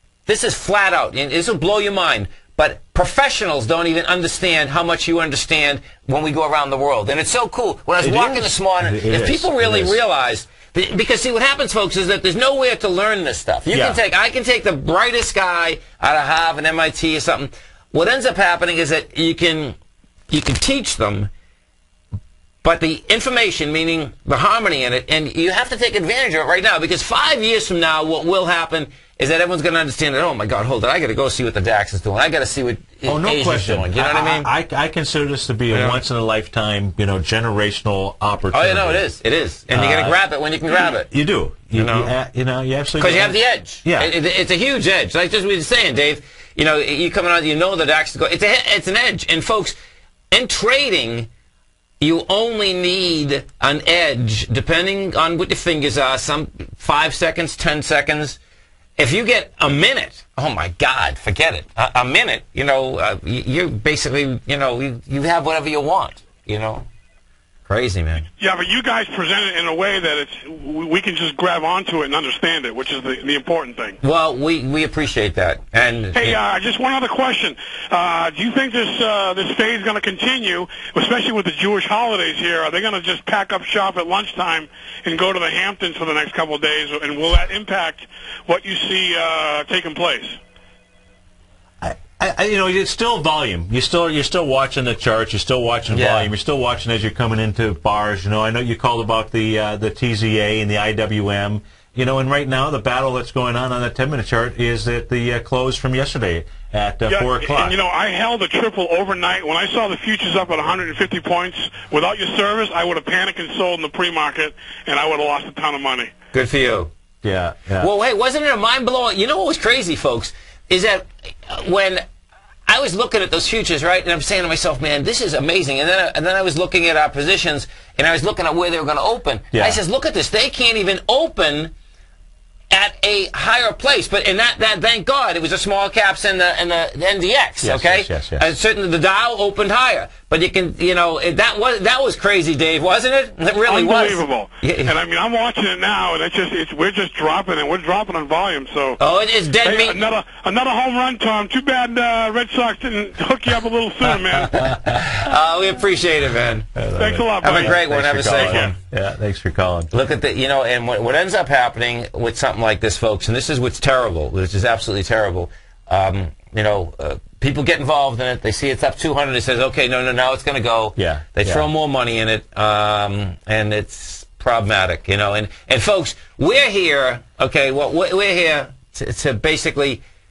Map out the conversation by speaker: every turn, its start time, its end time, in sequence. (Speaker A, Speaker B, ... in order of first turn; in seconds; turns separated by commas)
Speaker A: 0.3-19.8, Speaker B: 8.0-10.0, Speaker B: 13.7-14.0, Speaker A: 20.3-21.3, Speaker A: 22.6-34.5, Speaker B: 33.0-39.1, Speaker A: 35.7-36.0, Speaker A: 38.5-41.1, Speaker B: 39.7-40.2, Speaker B: 40.7-44.1, Speaker A: 41.8-42.1, Speaker A: 43.0-49.8, Speaker A: 50.3-51.3, Speaker A: 52.0-58.4, Speaker A: 59.0-66.9, Speaker A: 67.7-68.3, Speaker C: 68.4-74.0, Speaker A: 74.0-76.4, Speaker C: 76.2-90.4, Speaker B: 91.8-107.8, Speaker A: 95.9-96.3, Speaker C: 107.1-116.1, Speaker A: 116.3-116.9, Speaker B: 117.2-117.9, Speaker A: 117.8-122.0, Speaker A: 122.7-131.7, Speaker B: 129.5-129.8, Speaker A: 132.7-145.0, Speaker B: 137.6-138.5, Speaker C: 143.7-149.0, Speaker A: 149.0-150.1, Speaker C: 149.6-154.8, Speaker B: 154.3-155.0, Speaker A: 154.5-156.7, Speaker B: 156.8-159.9, Speaker C: 156.9-158.6, Speaker A: 157.4-158.8, Speaker A: 159.9-180.0, Speaker B: 171.0-171.7